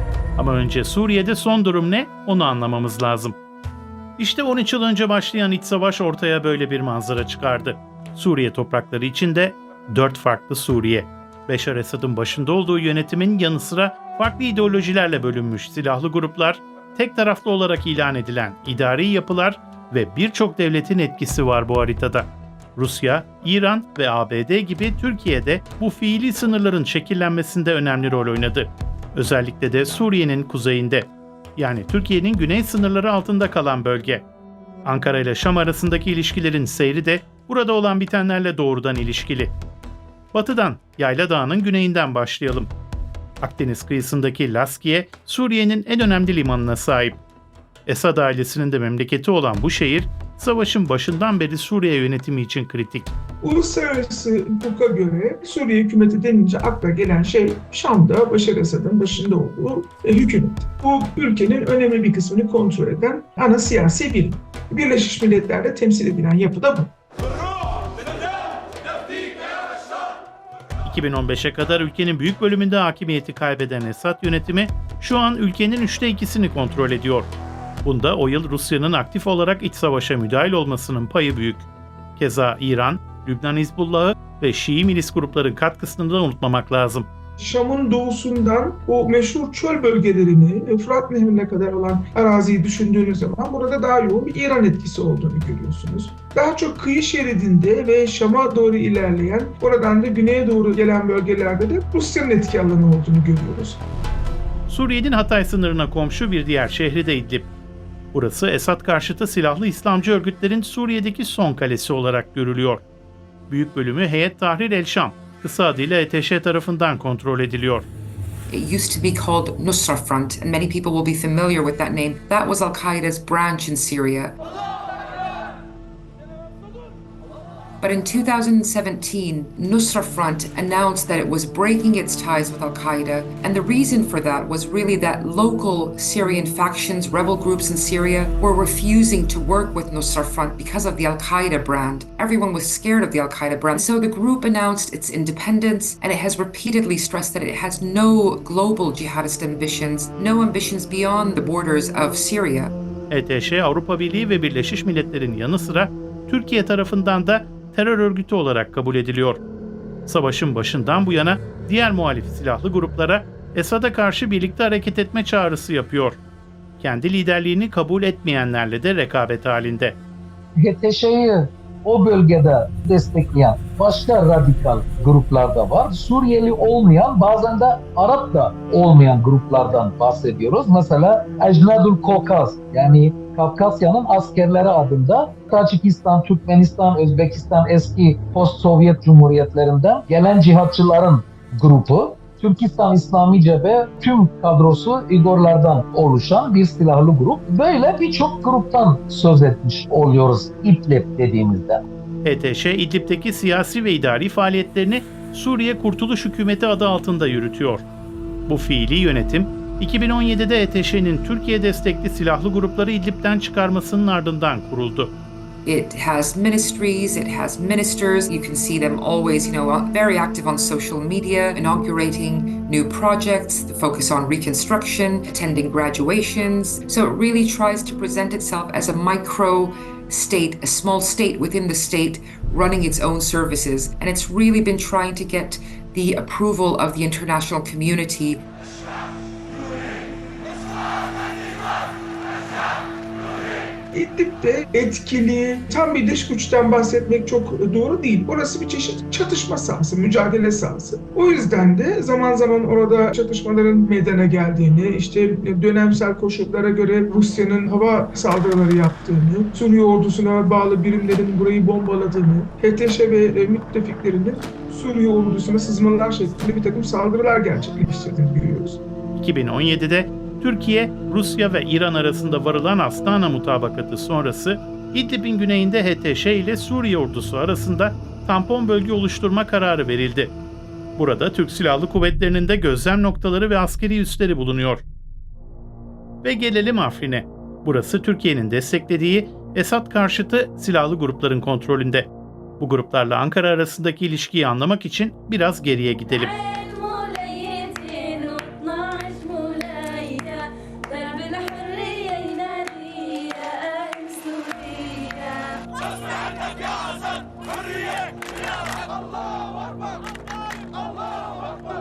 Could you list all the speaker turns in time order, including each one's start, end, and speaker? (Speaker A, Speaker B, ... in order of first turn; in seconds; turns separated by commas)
Speaker A: 0.4-3.4, Speaker A: 4.2-34.3, Speaker A: 34.9-39.5, Speaker A: 40.3-42.7, Speaker A: 43.4-47.2, Speaker A: 47.9-53.1, Speaker B: 53.4-66.9, Speaker A: 70.8-77.3, Speaker A: 77.8-87.1, Speaker B: 87.4-103.8, Speaker A: 104.7-107.5, Speaker A: 108.1-112.8, Speaker A: 113.5-117.9, Speaker C: 118.5-124.4, Speaker C: 127.8-152.7, Speaker A: 153.1-159.4, Speaker A: 160.1-166.2, Speaker A: 166.8-170.0, Speaker D: 170.6-201.8, Speaker A: 202.2-207.9, Speaker A: 208.5-215.1, Speaker C: 215.7-238.4, Speaker B: 243.9-268.8, Speaker A: 269.2-280.4, Speaker A: 281.0-284.8, Speaker A: 286.2-296.4, Speaker E: 296.1-305.6